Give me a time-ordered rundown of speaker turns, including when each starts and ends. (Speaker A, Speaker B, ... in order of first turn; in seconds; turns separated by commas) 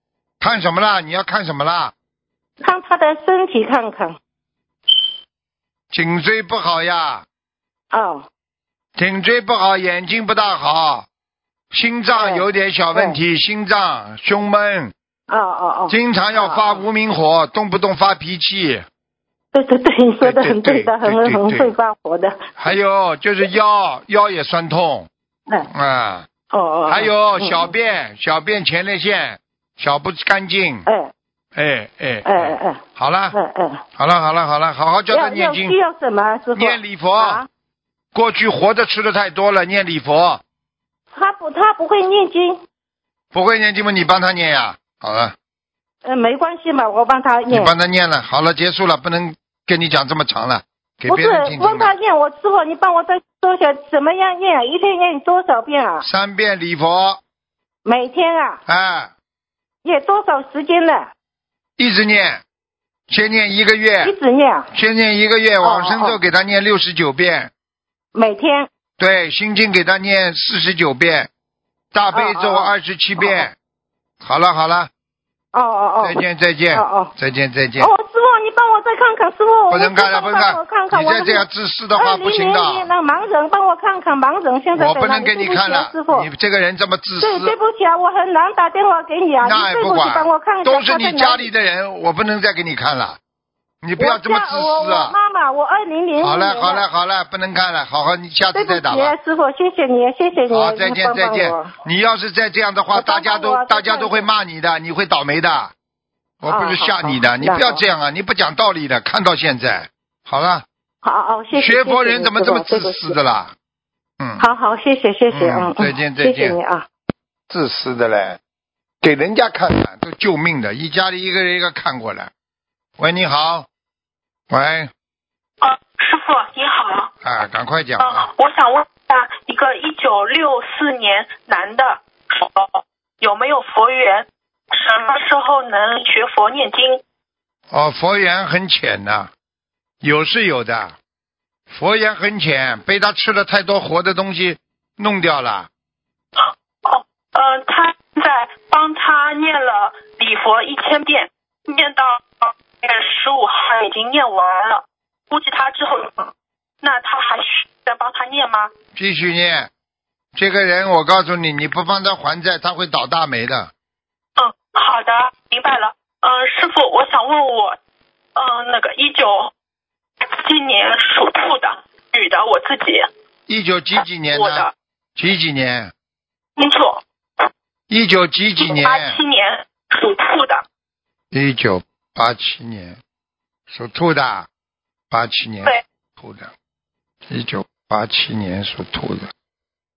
Speaker A: 0.4-1.9, Speaker B: 2.6-4.2, Speaker A: 5.9-7.2, Speaker B: 7.9-8.3, Speaker A: 8.9-11.1, Speaker A: 11.7-14.9, Speaker B: 12.2-13.2, Speaker B: 15.3-16.8, Speaker A: 15.9-18.9, Speaker B: 19.5-22.6, Speaker A: 20.2-21.7, Speaker A: 22.6-25.1, Speaker A: 25.7-26.3, Speaker B: 26.5-27.7, Speaker A: 26.9-30.9, Speaker B: 30.9-31.1, Speaker A: 31.5-33.4, Speaker B: 32.2-33.8, Speaker A: 34.0-35.8, Speaker B: 35.1-37.5, Speaker A: 36.5-37.4, Speaker A: 38.1-40.4, Speaker B: 41.1-42.6, Speaker A: 43.3-45.3, Speaker B: 46.0-47.7, Speaker A: 47.5-51.9, Speaker B: 51.1-56.0, Speaker A: 56.0-57.2, Speaker B: 57.8-58.6, Speaker A: 58.7-59.1, Speaker B: 59.8-61.1, Speaker A: 61.8-62.4, Speaker A: 63.1-64.1, Speaker B: 64.0-64.7, Speaker A: 64.7-67.5, Speaker B: 65.6-66.2, Speaker B: 68.1-68.7, Speaker A: 69.0-71.3, Speaker A: 71.9-73.5, Speaker B: 72.1-73.5, Speaker A: 74.2-74.9, Speaker B: 75.5-76.2, Speaker A: 76.0-77.9, Speaker B: 76.7-77.1, Speaker B: 77.8-86.3, Speaker A: 79.7-82.9, Speaker A: 84.7-87.5, Speaker B: 87.2-91.4, Speaker A: 89.4-93.2, Speaker A: 93.8-95.1, Speaker B: 94.0-96.8, Speaker A: 96.2-99.1, Speaker B: 98.5-101.7, Speaker A: 100.5-105.7, Speaker B: 102.9-104.3, Speaker A: 106.4-110.7, Speaker B: 106.5-107.8, Speaker B: 111.0-113.2, Speaker A: 111.5-113.5, Speaker A: 114.2-114.5, Speaker B: 114.4-116.9, Speaker A: 115.3-116.6, Speaker A: 117.5-118.4, Speaker A: 119.0-122.3, Speaker A: 123.0-123.7, Speaker A: 124.5-124.9, Speaker C: 125.6-127.1, Speaker A: 127.2-128.2, Speaker C: 128.0-137.0, Speaker A: 137.7-139.3, Speaker A: 140.0-140.9, Speaker A: 141.7-145.7, Speaker C: 146.4-156.3, Speaker C: 156.8-158.7, Speaker A: 158.9-159.7, Speaker A: 160.3-163.7, Speaker C: 164.4-167.8, Speaker C: 168.3-169.5, Speaker C: 170.3-173.1, Speaker A: 173.5-175.9, Speaker C: 174.3-174.7, Speaker C: 176.6-177.0, Speaker A: 177.9-179.2, Speaker C: 178.6-180.6, Speaker A: 181.3-183.0, Speaker A: 183.7-184.5, Speaker A: 185.1-186.5, Speaker A: 187.3-189.3